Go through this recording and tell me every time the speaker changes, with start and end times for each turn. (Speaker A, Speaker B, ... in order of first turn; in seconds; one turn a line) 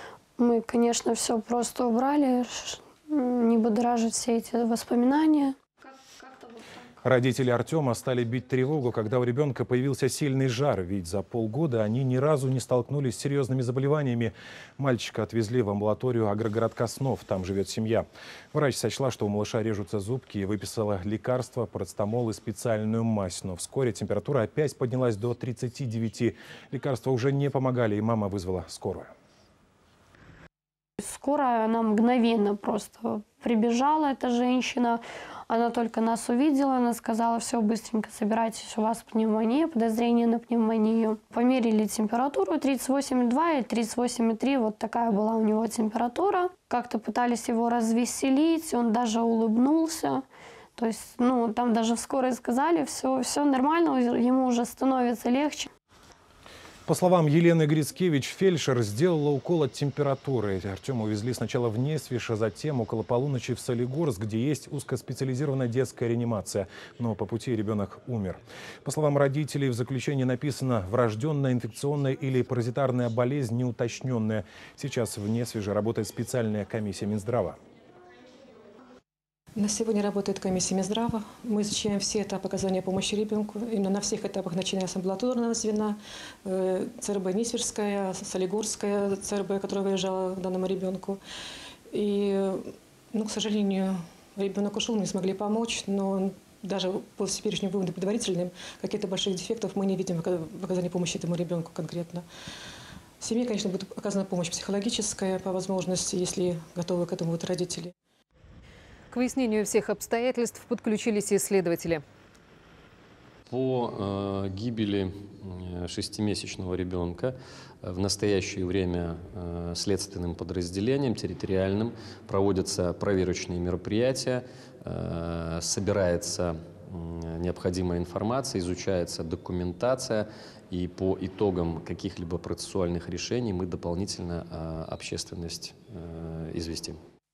Speaker A: 0.4-5.6
Speaker B: 7.0-29.1
Speaker A: 31.0-50.2
Speaker A: 50.8-55.7
Speaker B: 56.9-77.6
Speaker C: 79.6-91.2
Speaker C: 91.9-102.2
Speaker C: 103.2-107.9
Speaker D: 109.1-112.0
Speaker E: 113.5-137.0